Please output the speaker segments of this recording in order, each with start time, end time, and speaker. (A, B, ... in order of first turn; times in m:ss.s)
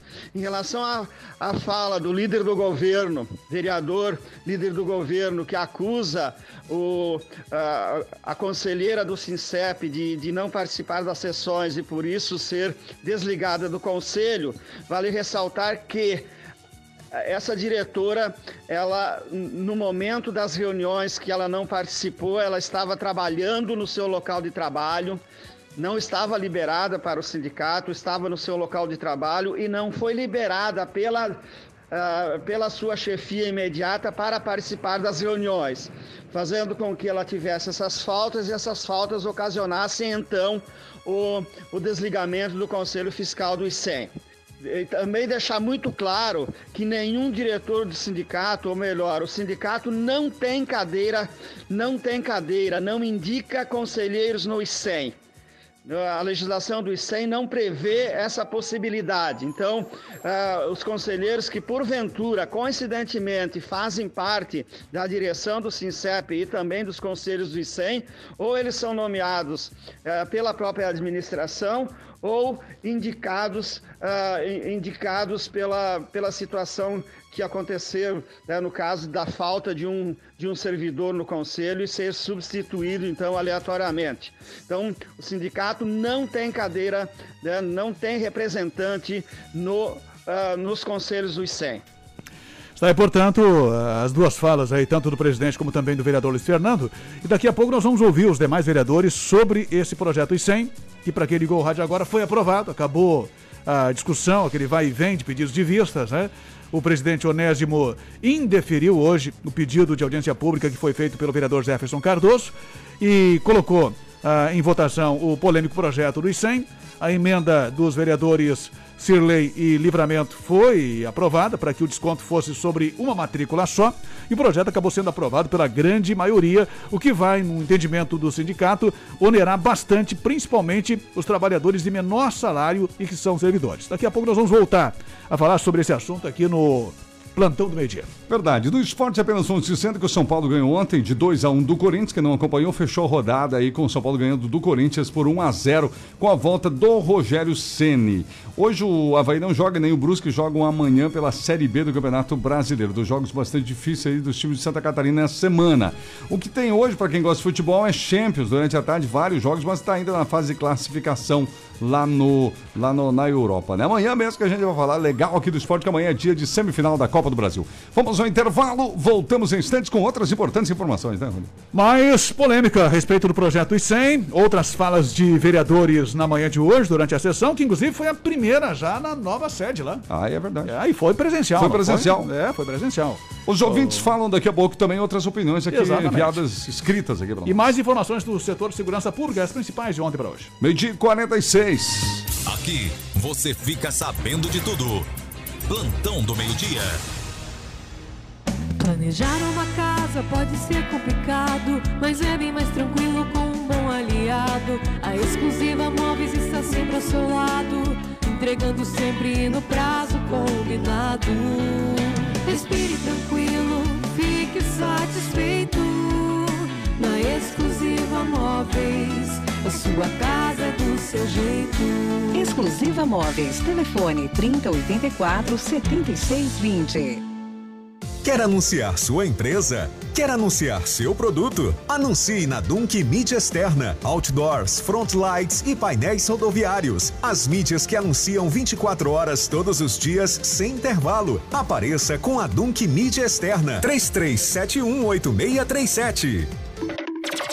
0:00.3-0:16.3 A
0:17.1-0:25.2 A
0:25.8-0:31.4 A
0:31.9-0:55.2 A
0:55.8-1:31.8 A
1:32.8-2:18.1 B
2:18.3-2:51.5 C
2:51.7-3:00.0 B
3:00.1-3:00.7 C
3:00.6-3:04.1 B
3:01.6-3:02.3 C
3:03.4-3:07.7 C
3:05.7-3:06.4 B
3:07.4-3:10.5 B
3:10.6-3:12.3 C
3:12.5-3:15.0 D
3:15.7-3:16.9 D
3:18.8-3:42.5 E
3:42.3-3:47.2 F
3:48.2-4:06.5 G